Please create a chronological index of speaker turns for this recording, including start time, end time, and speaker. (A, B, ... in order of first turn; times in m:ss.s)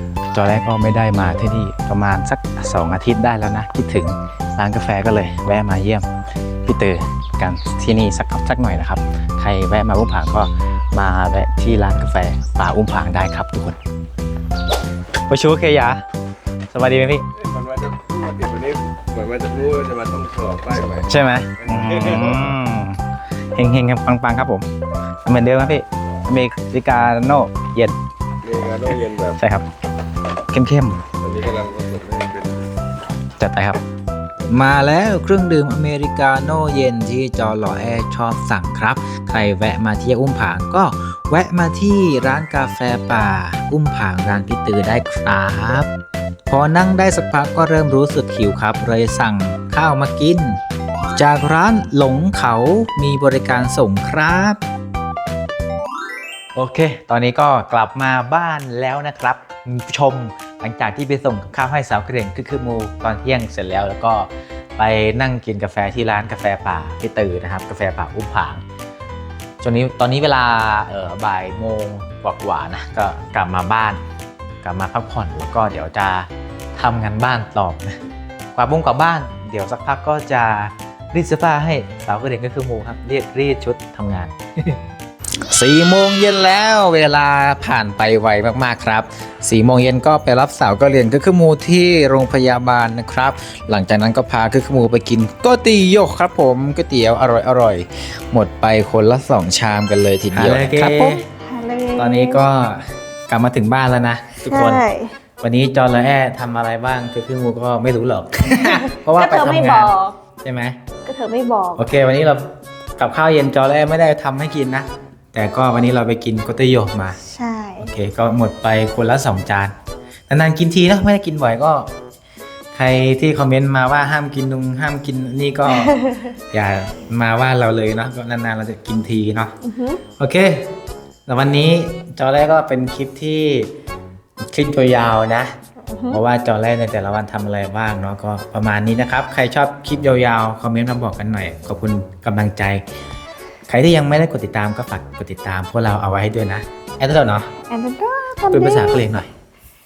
0:00.3-0:06.1 A
0:06.7-0:13.8 A
0:15.3-0:16.0 A
0:16.7-0:17.2 A
0:17.4-0:21.1 B
0:21.0-0:23.0 A
0:21.6-0:22.4 B
0:23.6-0:24.7 A
0:25.2-0:28.0 A
0:28.4-0:29.4 B
0:29.4-0:29.7 A
0:30.5-0:31.0 A
0:31.2-0:32.7 B
0:33.4-0:33.8 A
0:34.5-0:45.9 A
0:46.5-0:50.6 A
0:51.2-0:54.6 A
0:56.6-1:08.6 A
1:09.6-1:14.0 A
1:14.6-1:18.0 A
1:18.5-1:24.8 A
1:25.4-1:41.2 A
1:40.6-1:42.4 C
1:42.0-1:44.8 A
1:44.5-1:45.1 C
1:45.4-1:50.8 A
1:48.6-1:50.2 C
1:51.1-1:51.9 C
1:51.8-1:57.2 A
1:57.2-1:57.9 C
1:57.8-1:59.7 A
2:00.3-2:01.9 A
2:02.7-2:09.5 A
2:05.8-2:06.2 C
2:09.6-2:10.0 C
2:10.2-2:10.7 A
2:11.3-2:13.7 A
2:14.5-2:15.5 A
2:15.9-2:16.2 C
2:16.1-2:22.8 A
2:23.7-2:27.5 A
2:27.7-2:29.0 C
2:28.5-2:29.3 A